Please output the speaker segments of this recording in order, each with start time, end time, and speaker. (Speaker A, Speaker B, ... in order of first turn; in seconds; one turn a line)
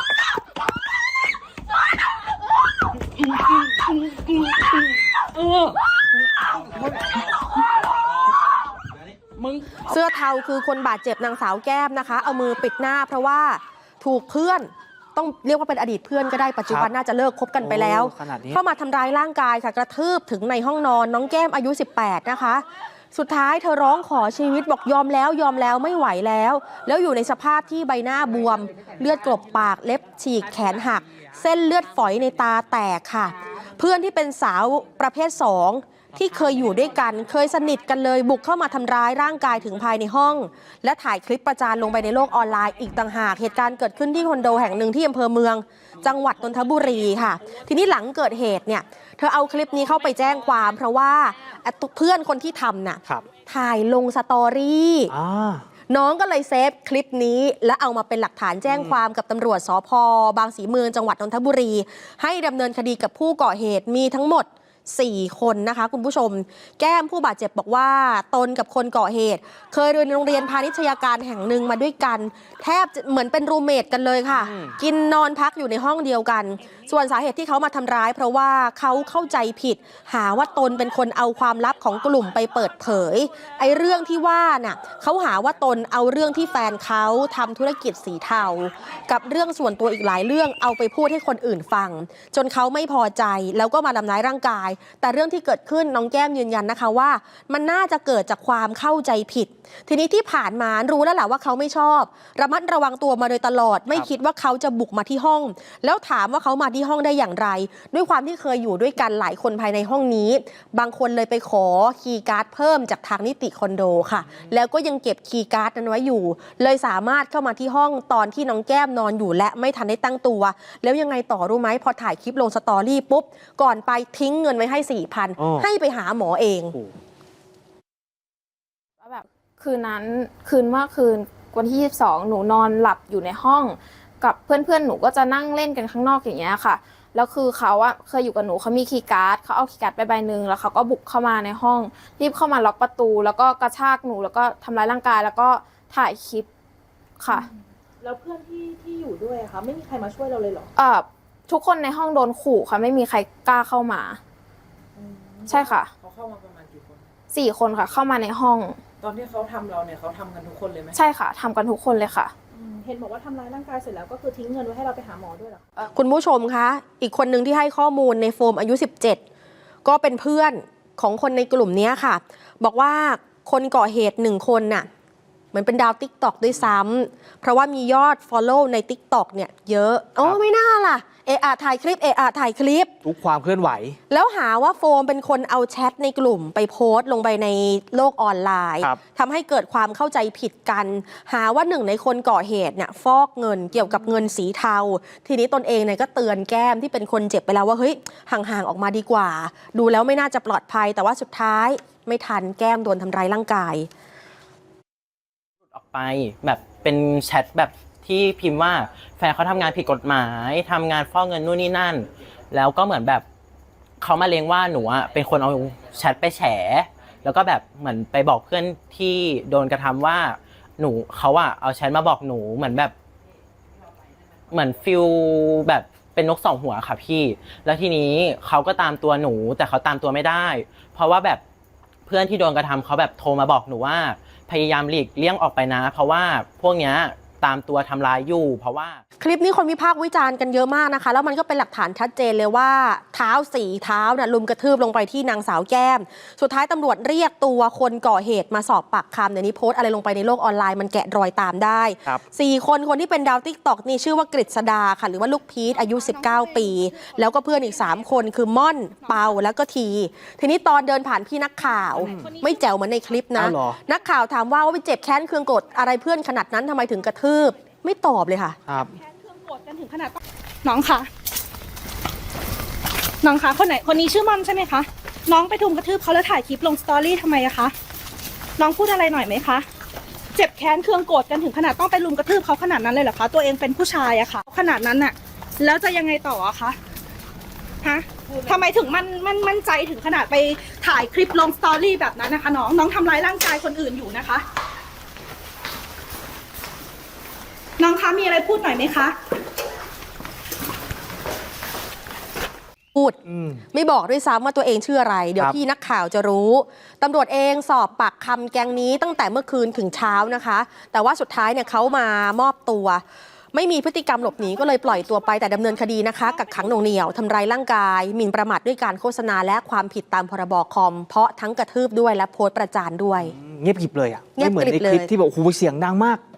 Speaker A: 9.8-55.1
Speaker B: 17.6-18.6
Speaker B: 55.1-55.6
Speaker A: 55.9-126.8
Speaker B: 58.7-59.0
Speaker B: 125.4-125.7
Speaker C: 129.0-146.5
Speaker C: 147.2-147.5
Speaker D: 148.0-150.7
Speaker C: 150.8-154.2
Speaker D: 155.0-155.8
Speaker C: 155.5-155.9
Speaker E: 156.0-157.0
Speaker C: 157.3-158.8
Speaker E: 159.0-161.0
Speaker C: 160.9-162.3
Speaker D: 162.5-165.6
Speaker A: 165.8-169.2
Speaker A: 169.8-174.9
Speaker A: 175.5-182.9
Speaker B: 183.0-184.0
Speaker A: 184.1-203.9
Speaker F: 205.7-213.2
Speaker F: 214.0-222.9
Speaker F: 224.5-231.4
Speaker F: 232.1-239.0
Speaker A: 239.2-268.6
Speaker D: 255.8-258.2
Speaker D: 259.0-259.3
Speaker B: 262.0-262.3
Speaker D: 262.0-262.7
Speaker B: 263.3-263.8
Speaker B: 268.7-268.9
Speaker D: 268.9-271.1
Speaker D: 273.2-277.7
Speaker D: 278.6-279.7
Speaker D: 280.4-286.8
Speaker D: 287.8-294.4
Speaker D: 297.8-299.1
Speaker B: 303.3-303.6
Speaker A: 303.7-313.0
Speaker A: 313.5-323.4
Speaker D: 314.6-315.0
Speaker B: 323.2-326.2
Speaker A: 324.4-325.1